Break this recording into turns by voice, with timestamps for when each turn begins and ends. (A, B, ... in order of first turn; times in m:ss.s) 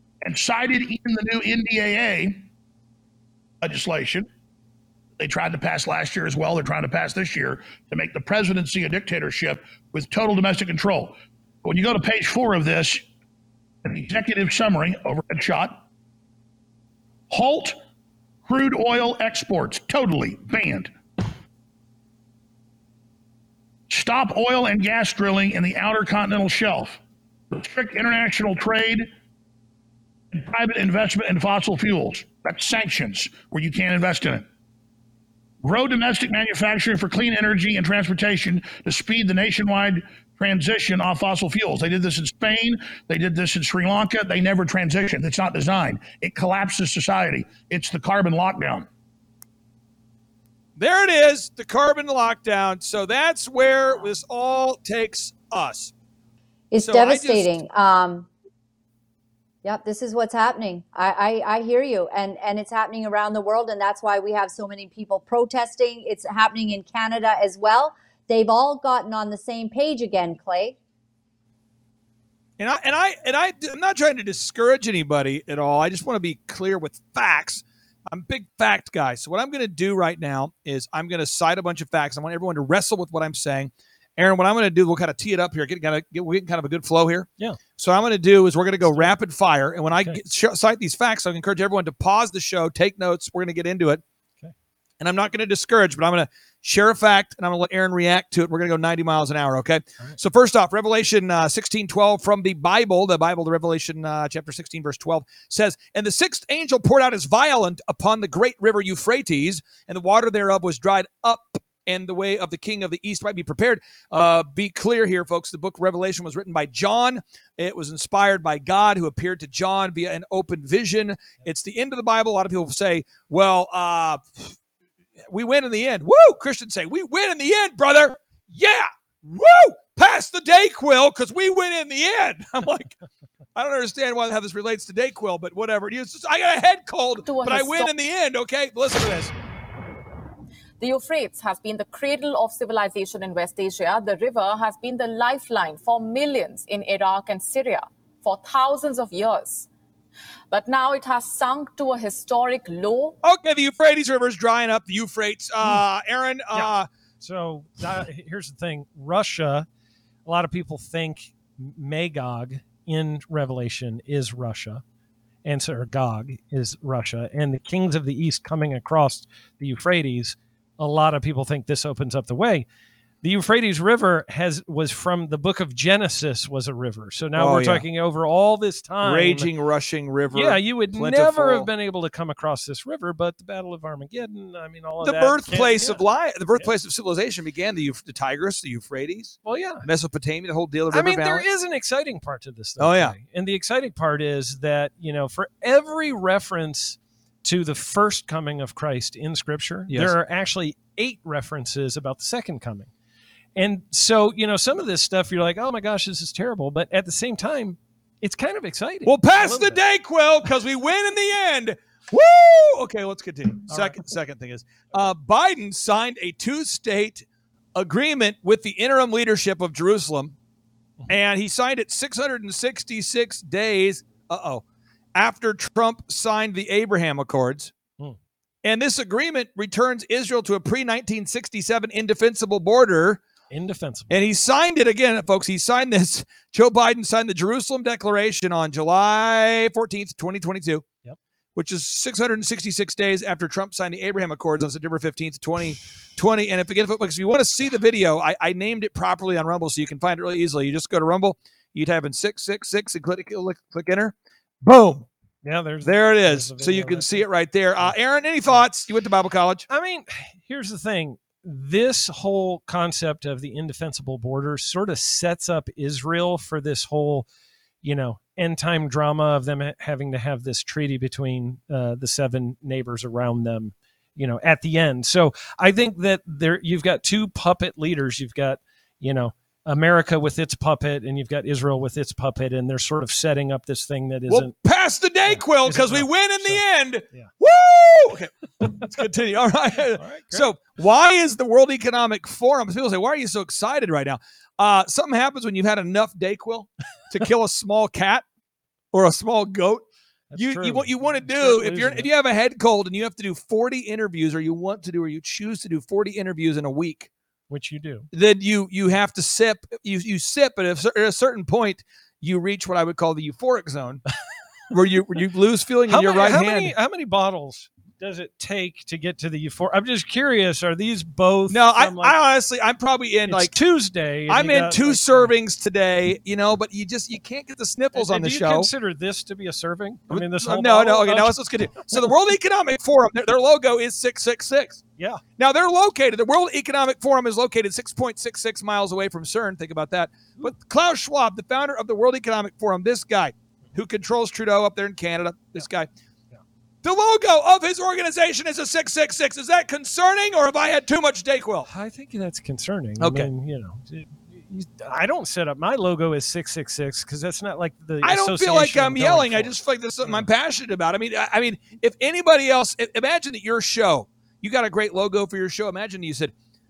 0:00.2-0:02.5 A
0:03.6-0:04.3 A
0:05.2-0:13.0 A
0:13.8-0:15.8 A
0:17.3-0:17.8 A
0:18.4-0:20.9 A
0:23.9-0:27.0 A
0:27.5-0:29.1 A
0:30.3-0:34.5 A
0:35.6-0:48.9 A
0:50.8-0:55.9 B
0:56.7-0:58.3 C
0:56.8-0:57.5 B
0:59.6-1:10.8 C
1:12.6-1:34.0 B
1:28.8-1:29.1 D
1:29.9-1:30.2 D
1:35.0-2:04.5 B
2:05.3-2:13.0 B
2:13.5-2:19.3 B
2:17.2-2:17.9 E
2:20.8-2:29.7 E
2:30.5-2:33.2 E
2:33.2-2:36.9 B
2:36.5-2:39.7 D
2:40.2-2:44.8 D
2:45.4-2:52.6 D
2:53.2-2:59.5 D
2:57.4-2:57.8 B
2:59.0-3:01.7 B
3:00.3-3:06.7 D
3:05.0-3:11.4 B
3:09.4-3:09.9 D
3:10.9-3:22.9 D
3:12.8-3:13.2 B
3:19.9-3:20.1 B
3:23.5-3:29.8 D
3:29.0-3:40.3 B
3:33.7-3:34.2 D
3:41.1-3:44.6 B
3:45.1-3:47.7 B
3:48.6-3:53.2 B
3:53.5-3:54.2 D
3:54.1-4:00.8 B
4:01.6-4:15.1 B
4:15.4-4:18.6 D
4:15.8-4:19.6 B
4:19.7-4:27.3 D
4:27.8-4:44.5 D
4:44.3-4:58.2 B
4:45.2-4:47.3 D
4:48.6-4:49.0 D
4:49.9-4:50.5 D
4:58.9-4:59.8 B
5:00.3-5:02.1 D
5:00.4-5:07.1 B
5:07.5-5:08.1 D
5:08.1-5:14.0 B
5:14.7-5:16.7 B
5:15.9-5:22.2 D
5:21.5-5:23.6 B
5:23.3-5:25.3 D
5:24.3-5:28.7 B
5:27.9-5:32.1 D
5:30.1-5:34.8 B
5:35.4-5:45.9 B
5:46.8-5:51.7 B
5:51.6-6:00.3 D
5:53.0-5:53.3 B
5:58.0-6:06.3 B